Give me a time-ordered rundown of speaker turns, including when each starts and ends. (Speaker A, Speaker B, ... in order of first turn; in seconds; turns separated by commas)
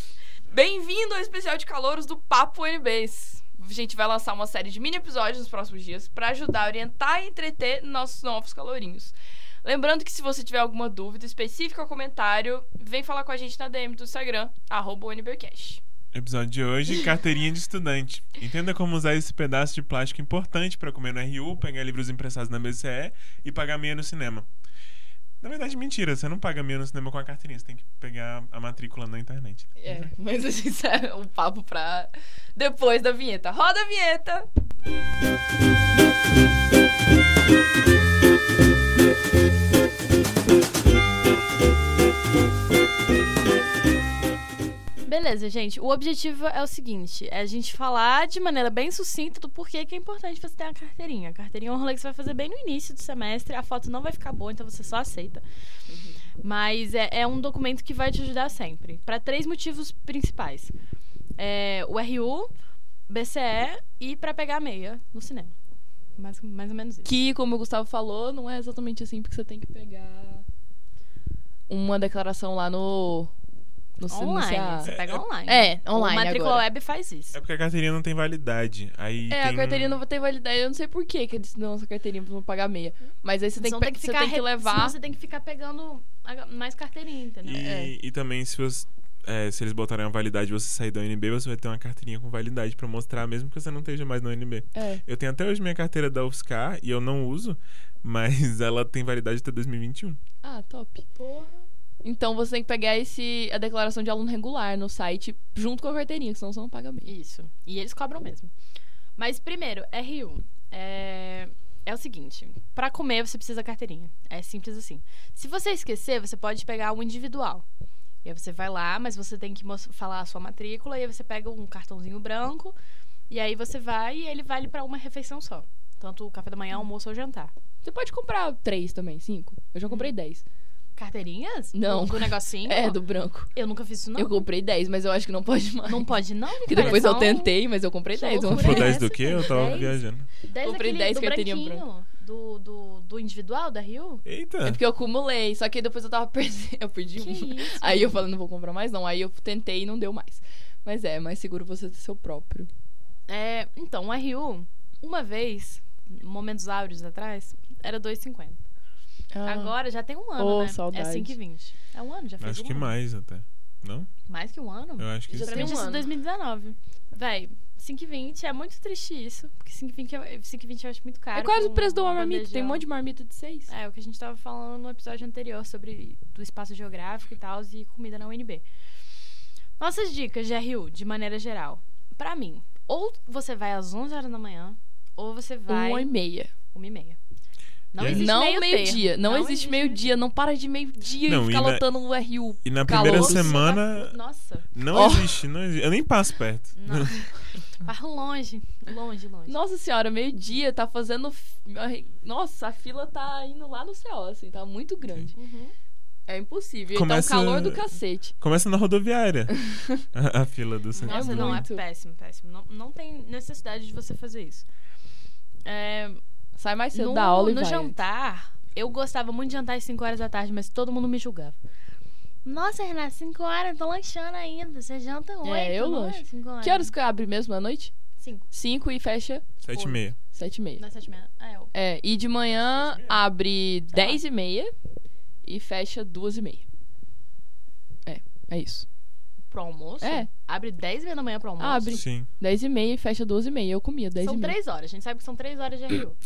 Speaker A: 0.5-15.8, Speaker B: 16.1-24.5, Speaker B: 25.4-30.1, Speaker A: 29.8-34.5, Speaker C: 45.0-55.4, Speaker C: 56.4-60.7, Speaker C: 61.4-62.5, Speaker C: 63.1-65.5, Speaker C: 66.2-67.1, Speaker A: 67.0-70.5, Speaker A: 71.7-73.3, Speaker A: 74.0-74.9, Speaker C: 74.1-77.4, Speaker B: 74.8-75.2, Speaker A: 75.5-76.6, Speaker B: 77.3-80.0, Speaker A: 79.3-85.0, Speaker C: 83.6-87.7, Speaker B: 87.4-100.2, Speaker A: 87.6-87.9, Speaker A: 94.7-95.0, Speaker A: 100.4-101.0, Speaker C: 101.2-101.6, Speaker A: 102.0-107.1, Speaker C: 107.0-108.5, Speaker C: 109.2-117.6, Speaker C: 118.2-122.8, Speaker C: 123.3-127.5, Speaker A: 127.8-130.4, Speaker C: 129.8-130.1, Speaker C: 131.0-133.0, Speaker A: 131.7-133.5, Speaker C: 133.5-134.4, Speaker A: 134.1-139.9, Speaker C: 135.8-144.2, Speaker B: 138.4-140.3, Speaker A: 140.6-141.8, Speaker B: 144.2-144.8, Speaker A: 144.6-152.7, Speaker C: 147.2-148.1, Speaker C: 153.3-158.6, Speaker A: 159.3-159.8, Speaker C: 159.4-162.9, Speaker A: 160.3-161.3, Speaker B: 162.4-164.1, Speaker C: 164.3-172.8, Speaker B: 165.0-165.8, Speaker A: 165.3-166.1, Speaker A: 171.3-173.7, Speaker C: 173.7-178.6, Speaker C: 179.8-186.1, Speaker A: 185.7-186.5, Speaker C: 186.7-187.2, Speaker C: 187.9-190.1, Speaker B: 188.0-188.3, Speaker A: 188.0-193.6, Speaker B: 191.3-191.9, Speaker B: 192.6-194.2, Speaker C: 192.9-194.7, Speaker B: 194.7-197.1, Speaker A: 194.9-195.4, Speaker C: 196.8-199.6, Speaker A: 199.5-205.3, Speaker C: 205.3-205.7, Speaker A: 206.3-208.3, Speaker B: 206.9-209.5, Speaker A: 209.5-210.0, Speaker B: 210.1-211.6, Speaker C: 210.9-214.7, Speaker A: 211.1-211.8, Speaker C: 215.6-216.2, Speaker A: 216.6-217.9, Speaker C: 216.9-221.6, Speaker C: 222.4-226.9, Speaker A: 225.4-227.9, Speaker C: 228.2-228.4, Speaker A: 228.5-229.4, Speaker B: 229.6-230.2, Speaker C: 229.7-230.0, Speaker A: 230.3-230.8, Speaker C: 230.8-231.7, Speaker A: 231.7-234.7, Speaker B: 232.5-233.2, Speaker C: 233.9-234.2, Speaker A: 235.4-236.6, Speaker A: 238.1-238.8, Speaker C: 239.5-242.0, Speaker A: 240.0-240.3, Speaker A: 241.6-244.6, Speaker B: 241.9-242.3, Speaker C: 244.2-246.2